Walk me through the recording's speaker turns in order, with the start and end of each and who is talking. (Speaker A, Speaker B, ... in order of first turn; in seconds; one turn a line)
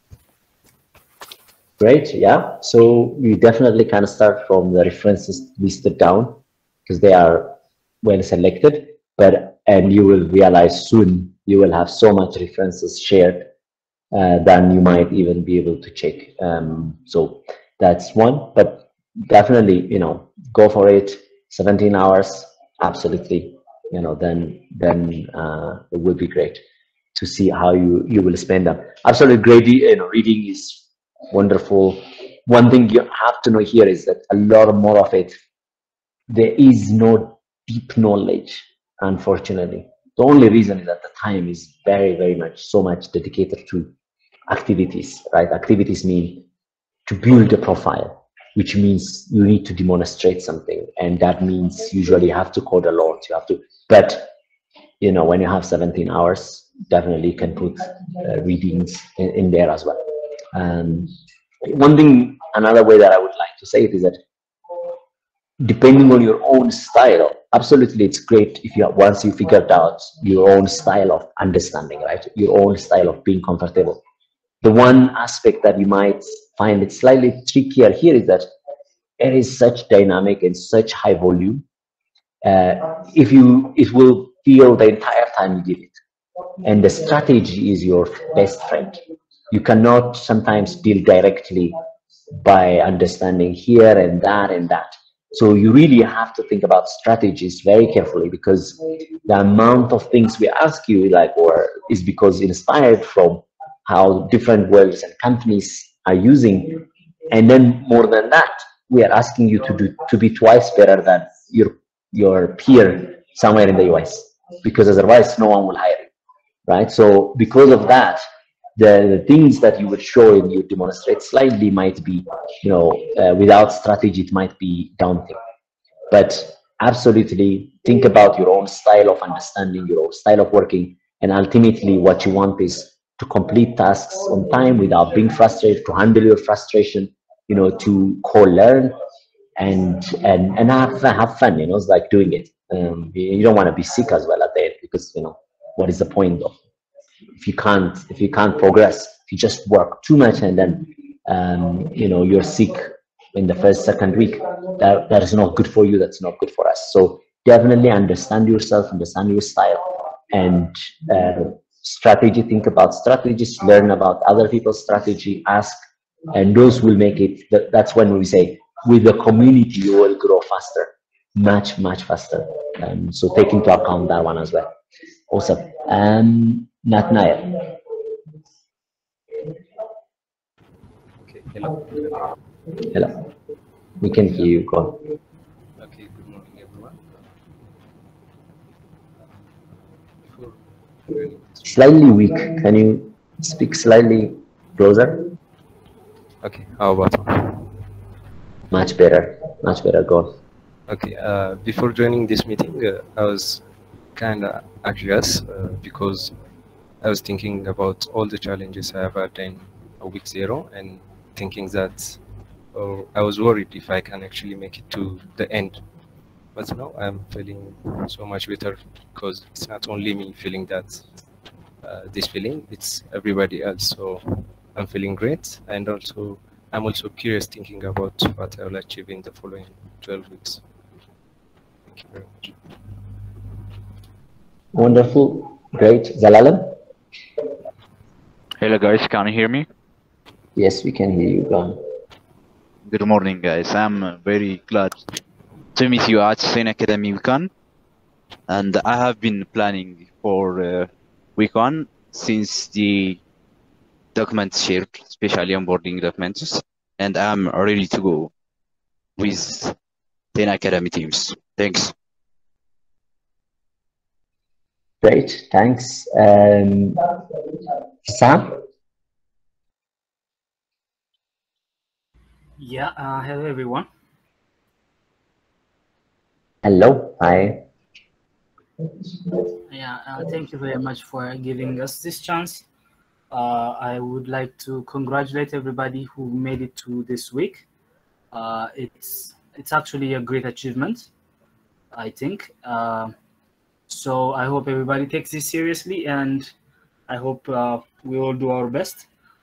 Speaker A: 1.8-13.5
Speaker A: 14.1-26.6
Speaker A: 27.1-35.4
Speaker A: 36.3-43.9
Speaker A: 44.5-46.4
Speaker A: 47.1-54.3
Speaker A: 55.0-60.0
Speaker A: 60.5-61.1
Speaker A: 61.6-64.2
Speaker A: 65.6-74.0
Speaker A: 74.6-78.5
Speaker A: 79.2-81.6
Speaker A: 82.4-86.0
Speaker A: 86.6-89.0
Speaker A: 89.5-91.8
Speaker A: 92.3-116.1
Speaker A: 116.7-118.2
Speaker A: 118.8-125.4
Speaker A: 126.1-138.9
Speaker A: 139.6-146.6
Speaker A: 147.4-174.7
Speaker A: 175.3-177.6
Speaker B: 181.2-182.3
Speaker A: 184.0-184.9
Speaker B: 185.8-187.2
Speaker B: 190.2-191.6
Speaker A: 191.6-195.2
Speaker B: 196.4-197.8
Speaker A: 198.7-200.4
Speaker B: 200.9-206.4
Speaker B: 207.0-215.8
Speaker B: 216.5-221.2
Speaker B: 221.8-230.6
Speaker B: 231.9-232.6
Speaker A: 234.7-236.8
Speaker C: 238.6-239.7
Speaker A: 240.6-241.8
Speaker C: 242.8-245.0
Speaker C: 245.8-247.5
Speaker C: 248.5-253.2
Speaker C: 254.2-258.3
Speaker C: 259.2-259.7
Speaker C: 260.4-261.9
Speaker A: 265.0-267.0
Speaker A: 268.1-268.6
Speaker D: 272.6-273.9
Speaker A: 276.6-277.6
Speaker D: 279.7-282.6
Speaker D: 283.3-287.6
Speaker D: 288.3-291.1
Speaker D: 291.9-293.1
Speaker D: 293.9-296.5
Speaker D: 297.1-299.1